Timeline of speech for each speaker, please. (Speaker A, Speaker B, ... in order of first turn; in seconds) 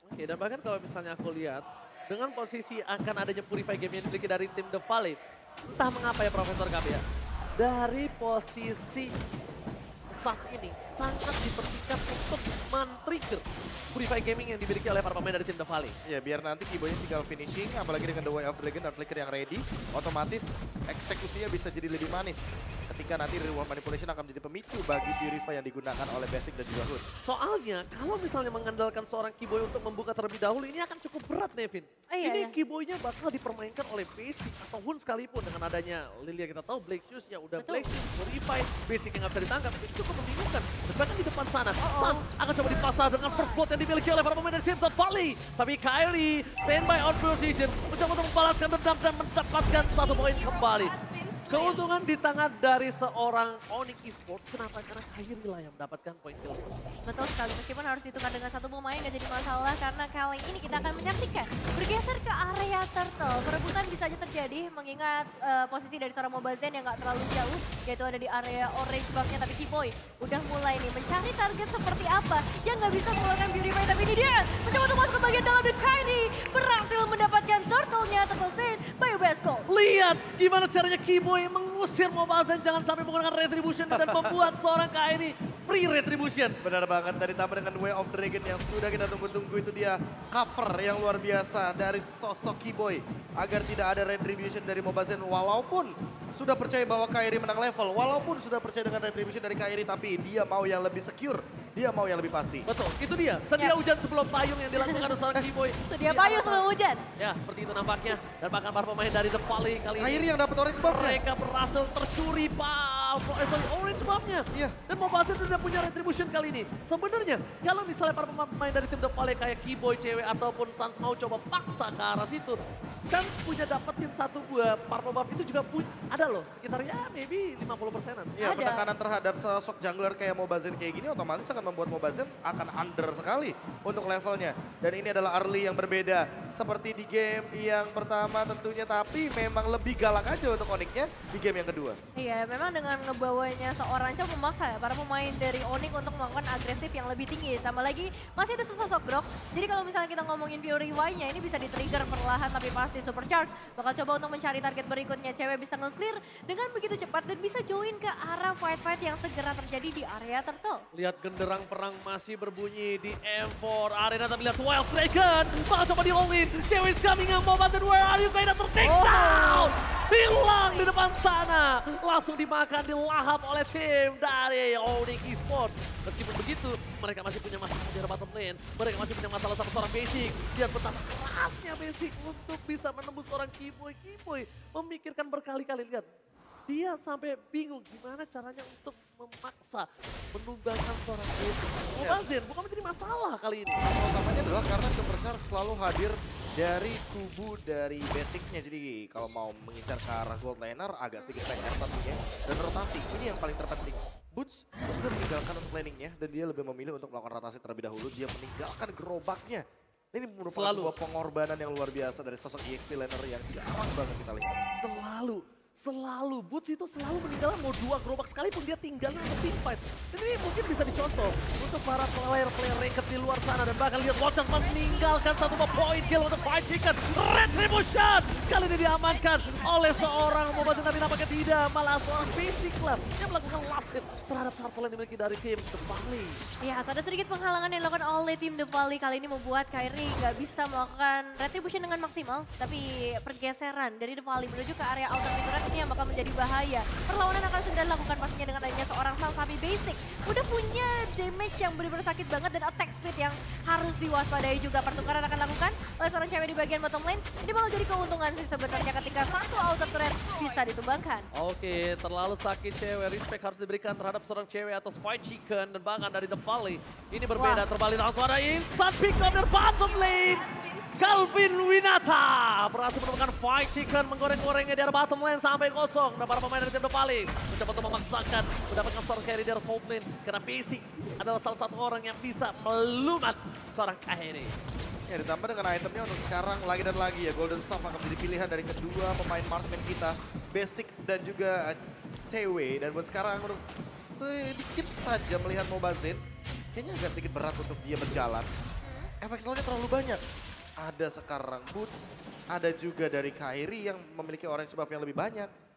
Speaker A: 0.1-7.0, 7.6-9.1, 10.1-16.0, 27.2-56.7, 79.7-86.6, 102.7-106.7, 107.2-122.6, 123.1-128.4, 160.9-186.1, 186.7-193.8, 210.5-210.9, 214.8-236.4, 261.3-284.6
Speaker B: 16.1-27.0, 83.9-84.5, 86.6-102.7, 110.0-111.2, 114.5-114.8, 128.4-142.0, 191.9-192.2, 193.8-214.6, 285.1-296.2, 296.8-298.5, 299.2-300.2, 300.8-305.5
Speaker C: 32.1-32.6, 37.6-37.9, 41.8-42.2, 57.0-79.7, 104.8-105.2, 105.9-107.0, 128.4-128.9, 142.2-160.8, 168.8-169.7, 236.6-261.3, 267.4-267.6, 298.8-299.1